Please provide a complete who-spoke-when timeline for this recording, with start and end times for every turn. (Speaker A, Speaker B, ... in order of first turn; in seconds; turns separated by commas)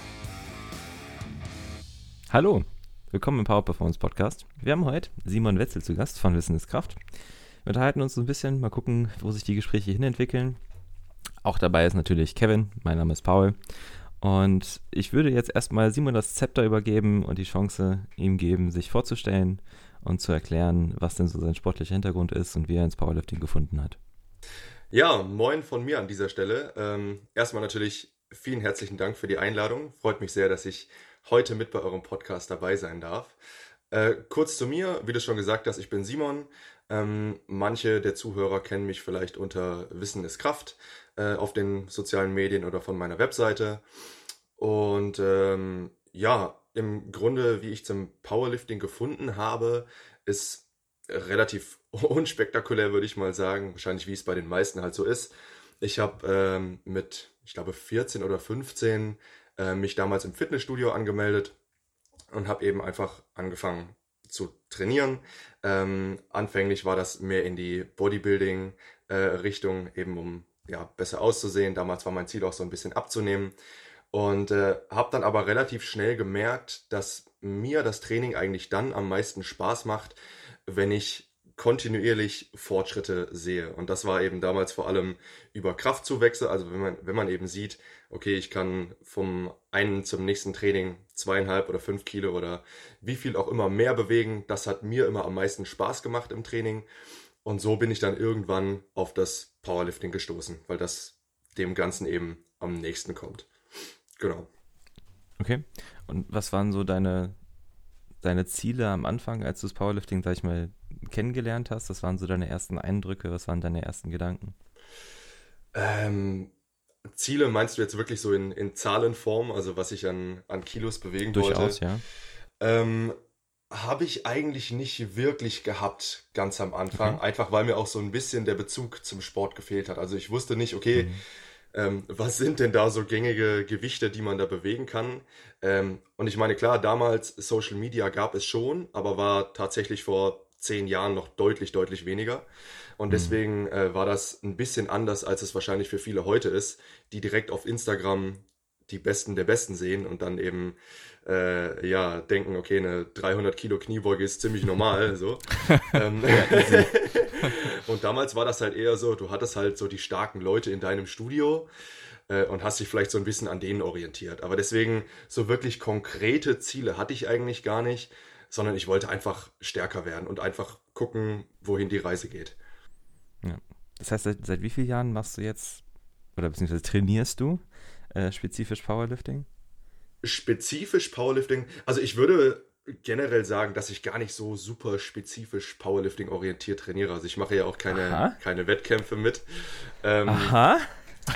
Speaker A: 2.3-7.0, Speaker A: 7.6-10.6, Speaker A: 11.4-24.0, Speaker B: 24.9-33.3, Speaker B: 33.9-43.8, Speaker B: 44.6-61.5, Speaker B: 62.3-73.5, Speaker B: 74.1-96.9, Speaker B: 97.4-103.5, Speaker B: 104.2-104.5, Speaker A: 105.4-107.3, Speaker A: 108.2-114.5, Speaker B: 115.7-116.5, Speaker B: 117.1-121.8, Speaker A: 121.3-122.0, Speaker B: 122.6-123.2, Speaker B: 123.7-131.1, Speaker A: 130.9-131.2, Speaker B: 131.7-142.5, Speaker B: 143.0-161.7, Speaker A: 143.1-143.4, Speaker A: 156.3-157.2, Speaker B: 162.3-172.6, Speaker A: 173.4-175.8, Speaker A: 176.3-179.5, Speaker B: 180.2-190.6, Speaker A: 187.9-188.3, Speaker A: 190.2-191.0